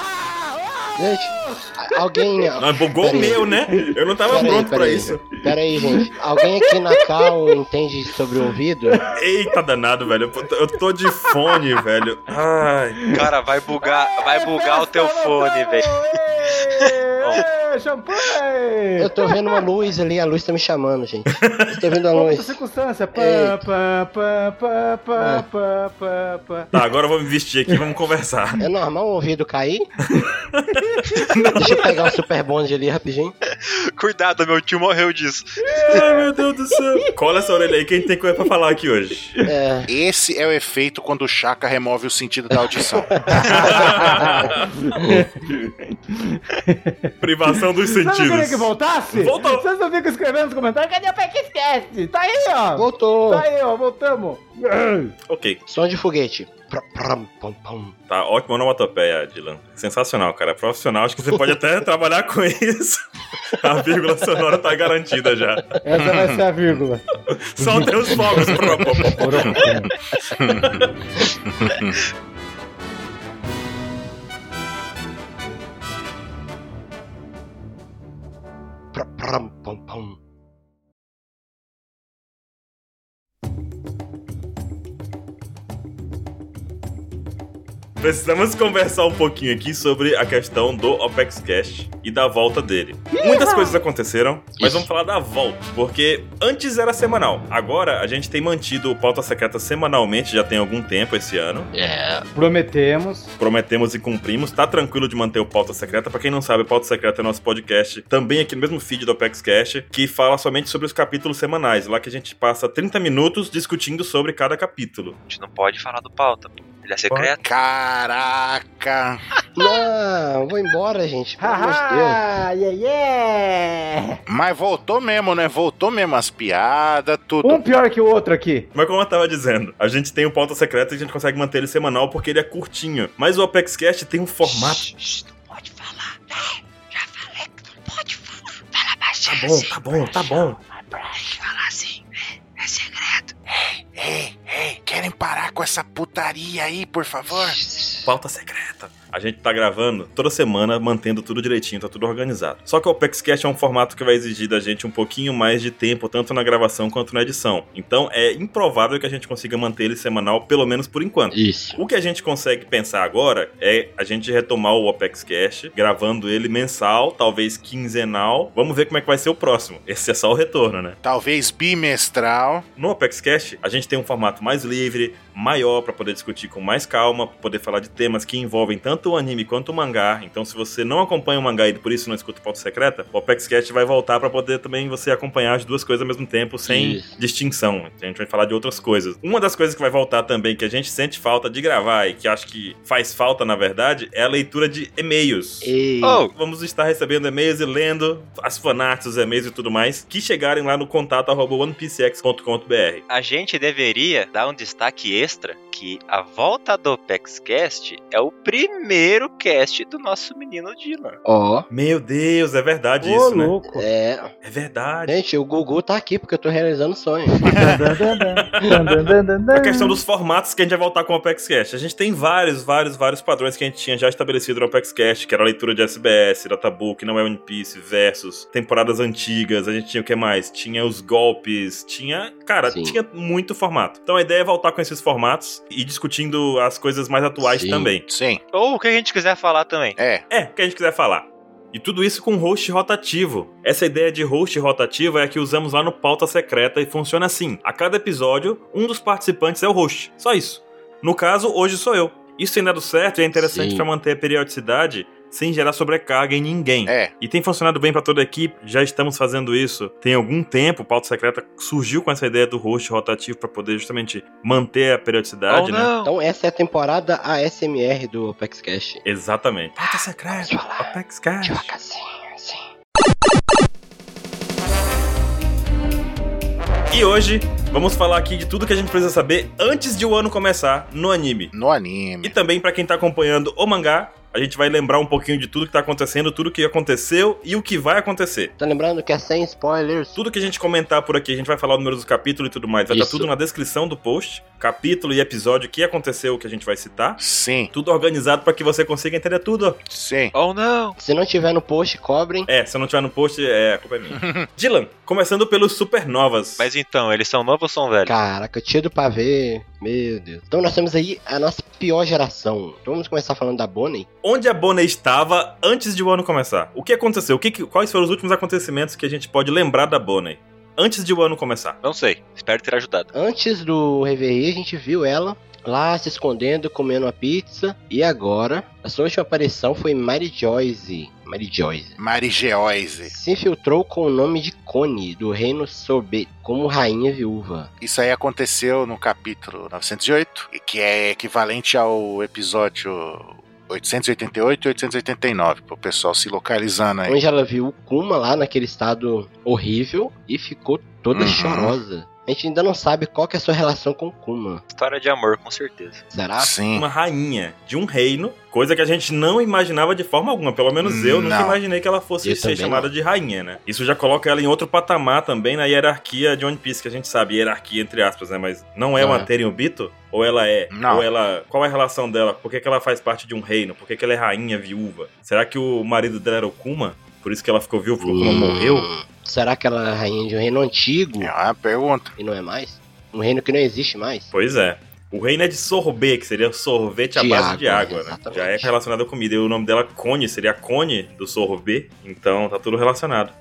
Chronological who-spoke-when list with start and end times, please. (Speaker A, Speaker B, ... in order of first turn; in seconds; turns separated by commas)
Speaker A: 1.0-3.5, Speaker B: 2.6-5.2, Speaker C: 3.7-4.7, Speaker A: 4.3-9.0, Speaker C: 5.3-6.1, Speaker B: 9.1-13.2, Speaker C: 11.2-11.6, Speaker D: 13.1-16.0, Speaker C: 13.8-19.3, Speaker D: 16.7-17.4, Speaker A: 19.0-22.6, Speaker B: 21.4-21.8, Speaker C: 22.1-26.8, Speaker A: 23.1-23.6, Speaker A: 25.2-25.4, Speaker B: 26.7-28.6, Speaker A: 28.6-29.9, Speaker B: 30.1-32.0, Speaker C: 30.7-31.3, Speaker A: 31.6-33.3, Speaker D: 33.5-35.5, Speaker C: 35.6-36.2, Speaker B: 35.8-39.3, Speaker A: 39.5-39.9, Speaker E: 39.9-43.2, Speaker A: 42.7-43.6, Speaker C: 43.3-55.1, Speaker B: 43.5-44.8, Speaker B: 47.2-49.6, Speaker A: 52.8-53.5, Speaker B: 55.3-55.6, Speaker A: 55.7-58.0, Speaker B: 58.1-65.8, Speaker C: 65.8-67.1, Speaker E: 66.0-66.4, Speaker B: 67.3-69.7, Speaker C: 67.6-69.9, Speaker E: 70.4-70.8, Speaker E: 71.5-72.0, Speaker A: 78.9-80.2, Speaker B: 88.0-101.7, Speaker C: 93.1-93.8, Speaker A: 94.6-94.9, Speaker A: 101.7-102.3, Speaker C: 102.3-103.3, Speaker B: 103.4-115.2, Speaker D: 115.3-117.4, Speaker E: 117.4-119.2, Speaker A: 119.6-122.2, Speaker C: 121.4-124.2, Speaker E: 124.3-127.6, Speaker C: 127.4-128.7, Speaker B: 128.8-134.8, Speaker D: 134.5-142.1, Speaker B: 139.3-140.6, Speaker D: 142.6-143.3, Speaker E: 143.5-147.6, Speaker A: 147.3-148.1, Speaker B: 148.0-171.0, Speaker A: 161.3-161.8, Speaker E: 171.0-172.7, Speaker B: 172.8-195.7, Speaker A: 186.7-187.2, Speaker A: 195.6-196.3, Speaker D: 196.0-196.3, Speaker B: 196.3-203.0, Speaker D: 203.1-211.2, Speaker A: 211.2-211.7, Speaker B: 211.7-213.6, Speaker C: 213.0-213.9, Speaker A: 213.7-214.3, Speaker B: 214.4-215.2, Speaker A: 215.1-217.4, Speaker C: 217.4-220.0, Speaker E: 217.5-217.8, Speaker B: 218.3-218.8, Speaker B: 219.5-238.1, Speaker A: 232.7-233.0, Speaker A: 237.3-237.9, Speaker E: 238.1-238.4, Speaker D: 238.5-240.0, Speaker E: 240.0-240.2, Speaker B: 240.3-265.9, Speaker A: 253.3-253.8, Speaker E: 256.9-257.1, Speaker D: 265.5-266.1, Speaker A: 266.0-269.0, Speaker B: 269.1-271.7, Speaker A: 269.8-272.7, Speaker B: 276.9-281.5, Speaker E: 281.5-282.4, Speaker B: 282.2-288.5, Speaker A: 288.6-290.2, Speaker B: 290.1-297.2, Speaker A: 292.9-293.3, Speaker E: 297.2-297.7, Speaker B: 297.7-299.8, Speaker E: 299.9-300.3, Speaker D: 300.3-301.0, Speaker A: 301.0-302.5, Speaker B: 302.5-306.7, Speaker E: 304.1-304.5, Speaker D: 306.6-308.1, Speaker A: 308.1-314.1, Speaker B: 314.2-321.8, Speaker D: 321.8-323.1, Speaker A: 323.1-332.0, Speaker E: 332.0-333.1, Speaker A: 333.1-337.7, Speaker E: 337.8-347.2, Speaker A: 347.1-354.6, Speaker E: 351.1-351.8, Speaker D: 354.7-356.0, Speaker A: 356.1-356.5, Speaker E: 356.4-356.9, Speaker B: 356.8-378.9, Speaker E: 360.8-361.6, Speaker A: 362.2-362.9, Speaker A: 369.0-369.3, Speaker E: 370.7-371.1, Speaker A: 378.0-381.3, Speaker E: 381.2-382.1, Speaker A: 382.2-384.3, Speaker B: 384.3-393.3, Speaker A: 387.1-388.7